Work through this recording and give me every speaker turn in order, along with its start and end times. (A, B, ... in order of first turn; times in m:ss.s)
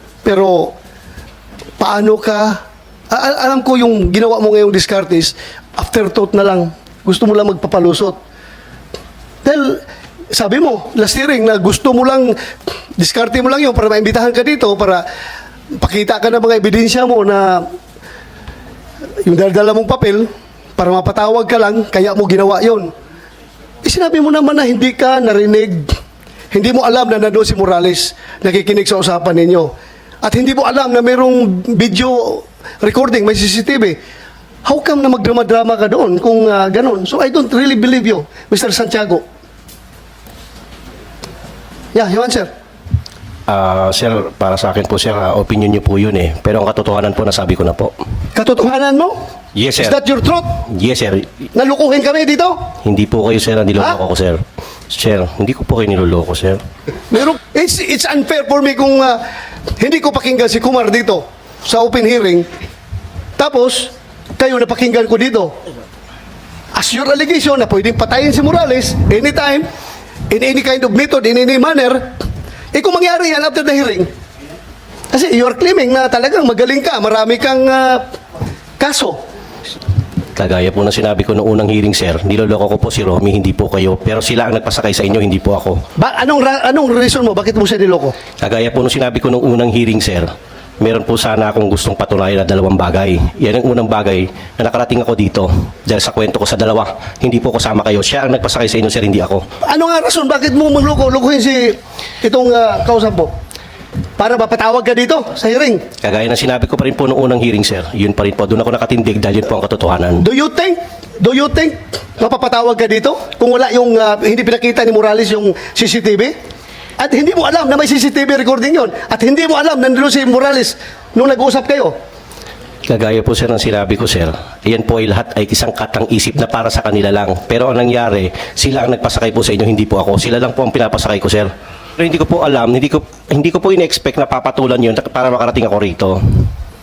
0:00.2-0:00.7 A
0:01.8-0:02.6 A
0:03.1-0:08.2 A
0:09.4-0:12.3 A
0:13.0-0:15.0 A
0:15.8-0:17.6 A
0:19.2-0:22.9 A
0:23.8-0:26.0 A
0:26.5-0:29.7 A
0:30.2-0:34.0 A
0:34.6-0:39.2 A
0:41.9-0:42.5 A
0:43.5-0:47.9 B
0:48.3-0:49.2 A
0:49.5-0:50.0 B
0:49.8-0:50.5 A
0:50.6-0:51.4 B
0:51.5-0:52.6 A
0:52.8-0:56.6 B
0:57.1-0:59.2 A
0:59.8-1:02.5 A
1:03.4-1:05.5 A
1:06.7-1:09.6 A
1:10.3-1:12.0 A
1:12.7-1:14.1 A
1:15.1-1:18.0 A
1:18.8-1:19.2 A
1:20.4-1:25.8 B
1:26.0-1:28.1 A
1:28.4-1:39.4 B
1:39.6-1:43.3 A
1:44.2-1:45.8 A
1:46.0-1:50.2 B
1:50.2-1:56.3 A
1:57.0-2:01.9 A
2:02.9-2:16.4 B